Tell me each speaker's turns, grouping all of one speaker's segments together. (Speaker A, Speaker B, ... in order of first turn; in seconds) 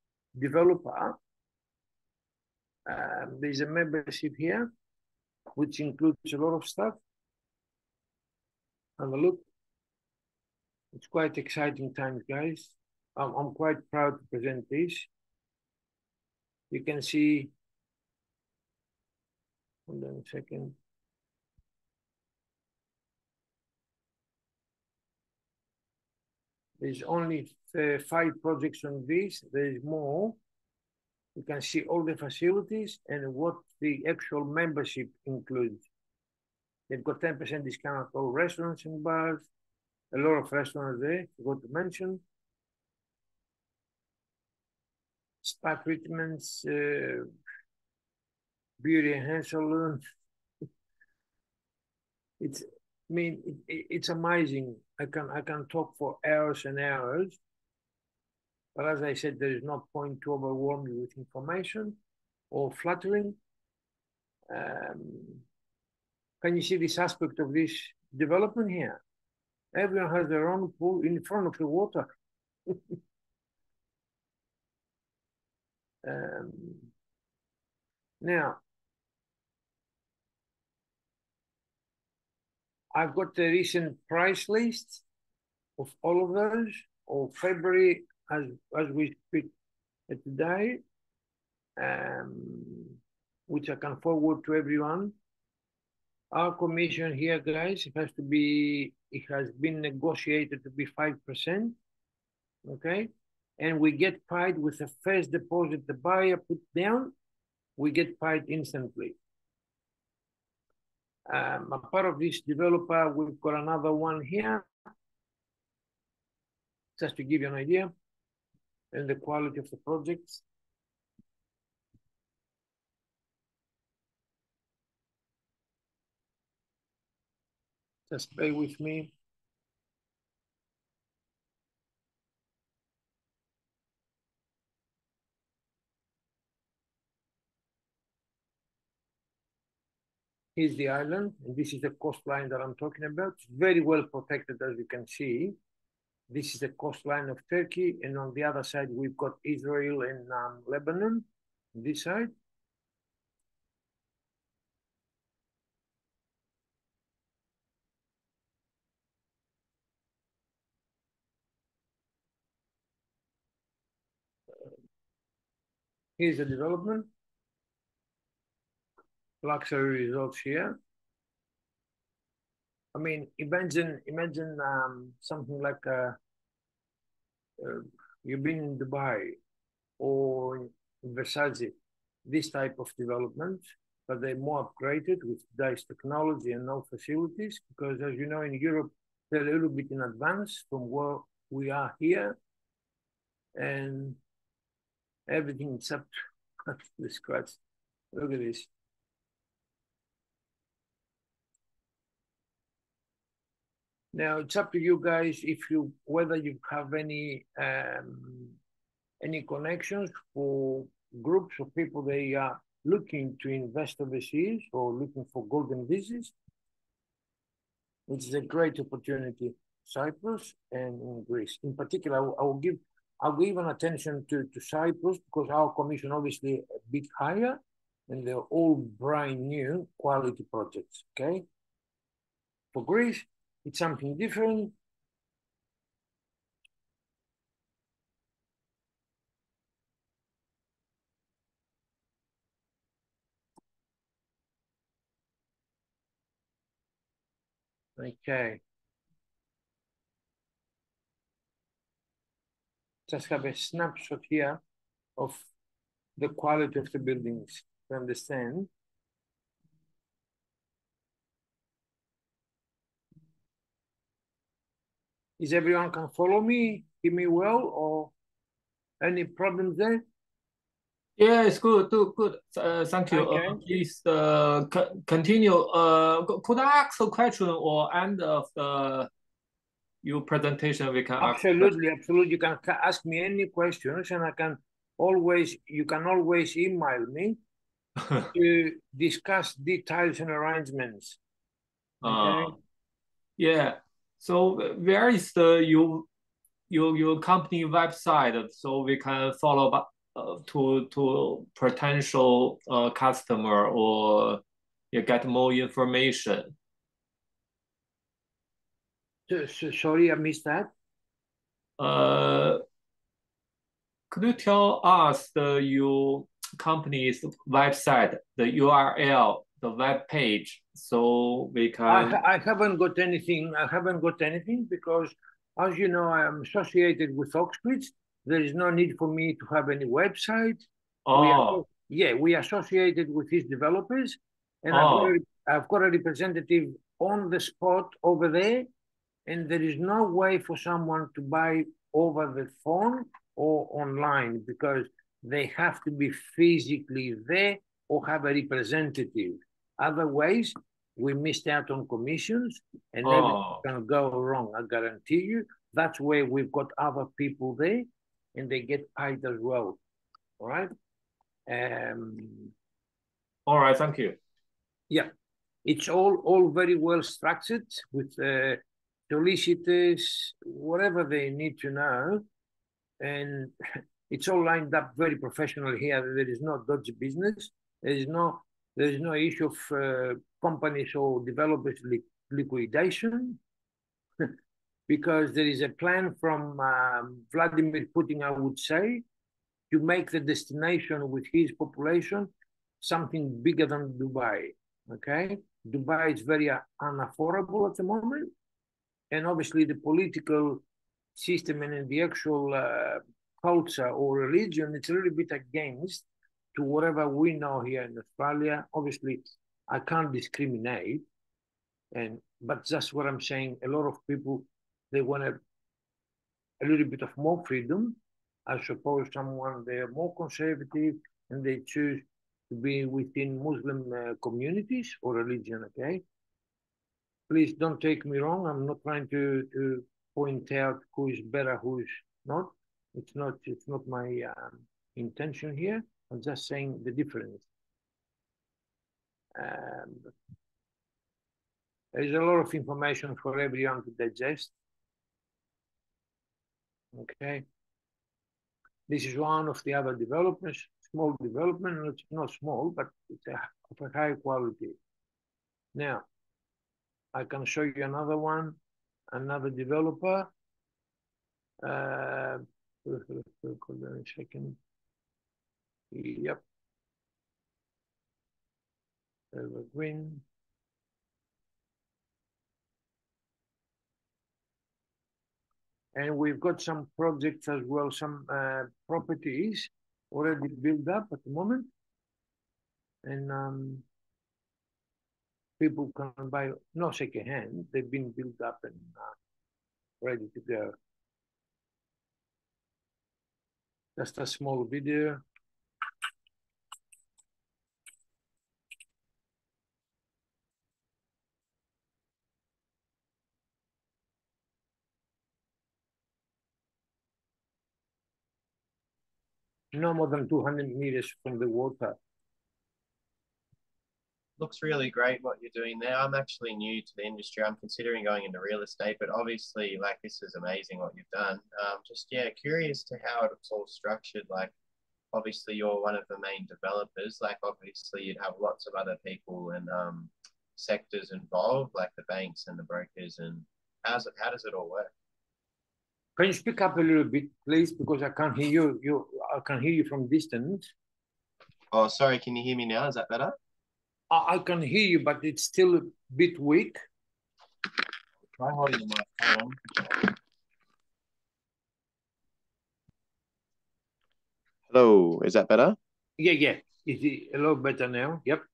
Speaker A: 0.3-1.2, 2.9-4.7, 5.6-7.0, 9.0-9.4, 10.9-15.1, 16.7-17.5, 19.9-20.8, 26.8-30.4, 31.3-35.8, 36.9-39.5, 40.1-42.2, 45.4-47.3, 48.8-50.0, 52.4-57.4, 58.8-62.0, 62.5-63.4, 64.5-65.4, 66.4-69.0, 69.7-72.1, 72.7-73.0, 76.0-76.9, 78.2-78.6, 82.9-85.0, 85.8-89.5, 90.1-90.8, 91.8-93.0, 93.5-95.1, 96.3-101.8, 102.6-107.1, 107.8-109.2, 111.3-114.7, 117.0-117.9, 118.9-120.4, 128.1-129.1, 140.6-145.6, 146.3-152.3, 166.2-167.1, 169.4-170.8, 172.9-176.2, 177.6-179.3, 180.0-192.3, 193.6-194.2, 195.3-196.1, 196.7-197.6, 198.1-198.7, 204.1-208.6, 209.2-216.3, 218.1-231.4, 232.7-234.7, 248.0-248.6, 253.1-254.6, 255.2-255.4, 256.2-258.7, 265.4-268.1, 269.0-270.0, 273.1-273.6, 281.2-287.4, 288.2-291.2, 292.0-292.6, 309.3-310.7, 321.9-338.7, 339.3-359.8, 360.4-360.7, 361.5-362.5, 365.6-372.2, 373.0-373.5, 374.1-383.4, 384.9-389.0, 389.7-398.3, 399.1-400.6, 401.1-411.0, 411.9-415.4, 416.6-426.0, 427.3-437.4, 439.4-440.1, 441.9-444.5, 446.9-447.4, 448.9-454.8, 455.7-456.0, 457.1-458.6, 459.1-460.3, 461.6-464.6, 465.9-466.4, 469.3-470.2, 475.9-481.7, 483.0-483.8, 485.6-489.1, 490.0-490.8, 493.9-495.2, 509.7-512.0, 536.2-540.6, 544.1-546.8, 556.2-558.4
Speaker B: 271.2-279.1, 280.0-281.7, 292.0-292.5, 293.4-296.1, 296.7-304.4, 304.9-306.5, 311.8-312.6, 314.1-322.1, 331.1-331.6, 334.7-335.1, 353.0-353.6, 363.5-364.1
Speaker C: 514.4-524.5, 525.1-534.9, 541.7-543.3, 548.3-550.1, 554.7-555.8